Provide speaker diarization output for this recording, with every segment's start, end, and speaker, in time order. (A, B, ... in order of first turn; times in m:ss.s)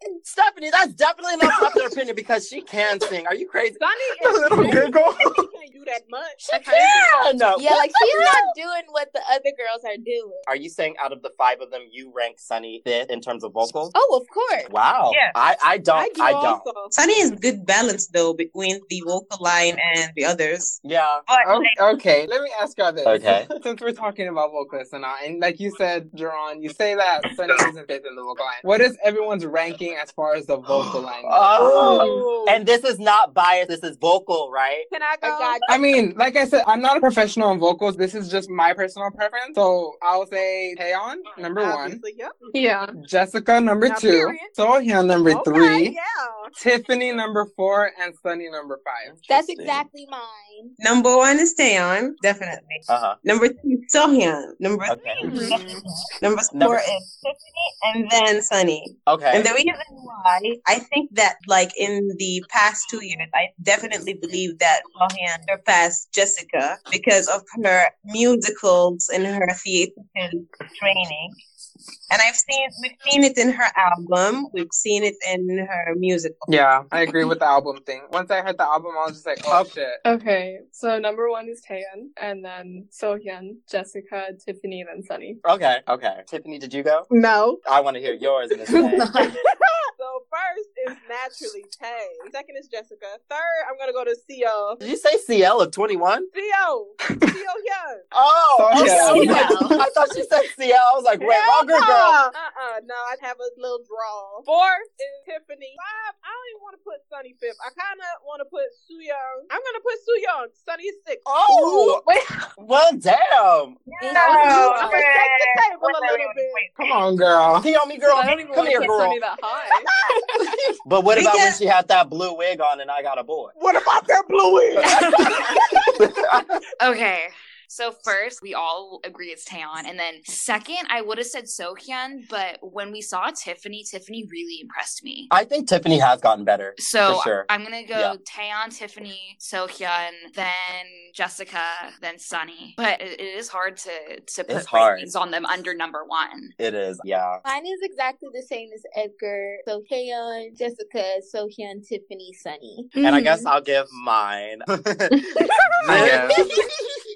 0:00.2-0:03.8 A
0:03.8-0:07.2 B
0:04.2-0:05.4 C
0:06.4-0:08.5 A
0:07.5-0:10.5 D
0:10.5-0:14.0 A
0:13.9-0:14.7 D
0:14.7-0:16.6 A
0:15.9-0:16.9 B
0:16.9-0:21.7 E
0:20.8-0:21.2 A
0:21.4-0:31.5 C
0:23.0-0:23.5 A
0:30.7-0:34.9 A
0:31.6-0:32.6 B
0:32.0-0:32.2 F
0:34.9-0:36.0 B
0:35.2-0:35.7 D
0:35.7-0:42.0 C
0:41.4-0:42.5 B
0:42.5-0:43.0 F
0:43.0-0:46.0 C
0:43.8-0:44.6 B
0:45.2-0:46.5 B
0:46.6-0:49.2 C
0:49.0-0:49.8 A
0:49.3-0:50.8 D
0:50.8-1:11.4 E
0:52.9-0:53.2 A
0:54.9-0:55.2 A
0:55.2-0:55.8 C
0:55.3-0:55.5 F
0:56.5-0:56.8 A
0:59.1-0:59.5 A
1:12.1-1:16.5 E
1:16.5-1:20.0 C
1:20.0-1:25.4 F
1:25.4-1:27.1 A
1:27.1-1:27.6 B
1:27.6-1:29.1 A
1:29.3-1:34.8 B
1:34.8-1:36.3 A
1:36.3-1:38.0 B
1:38.1-1:42.2 A
1:38.6-1:39.6 C
1:38.8-1:39.8 D
1:39.0-1:39.4 B
1:41.2-1:51.5 B
1:51.3-1:52.0 A
1:51.6-1:52.4 F
1:52.6-1:53.8 A
1:53.9-1:56.7 E
1:54.0-1:55.1 D
1:54.1-1:56.7 B
1:56.8-1:57.7 C
1:57.6-1:59.2 A
1:58.0-1:59.9 F
2:00.8-2:03.5 A
2:01.1-2:01.6 E
2:03.6-2:05.4 B
2:04.8-2:06.6 A
2:04.8-2:05.6 G
2:06.8-2:15.3 G
2:15.3-2:18.2 A
2:16.8-2:26.5 G
2:24.5-2:25.1 A
2:26.6-2:27.4 A
2:27.4-2:33.0 D
2:33.0-2:35.2 A
2:35.8-2:36.7 A
2:35.8-2:36.4 C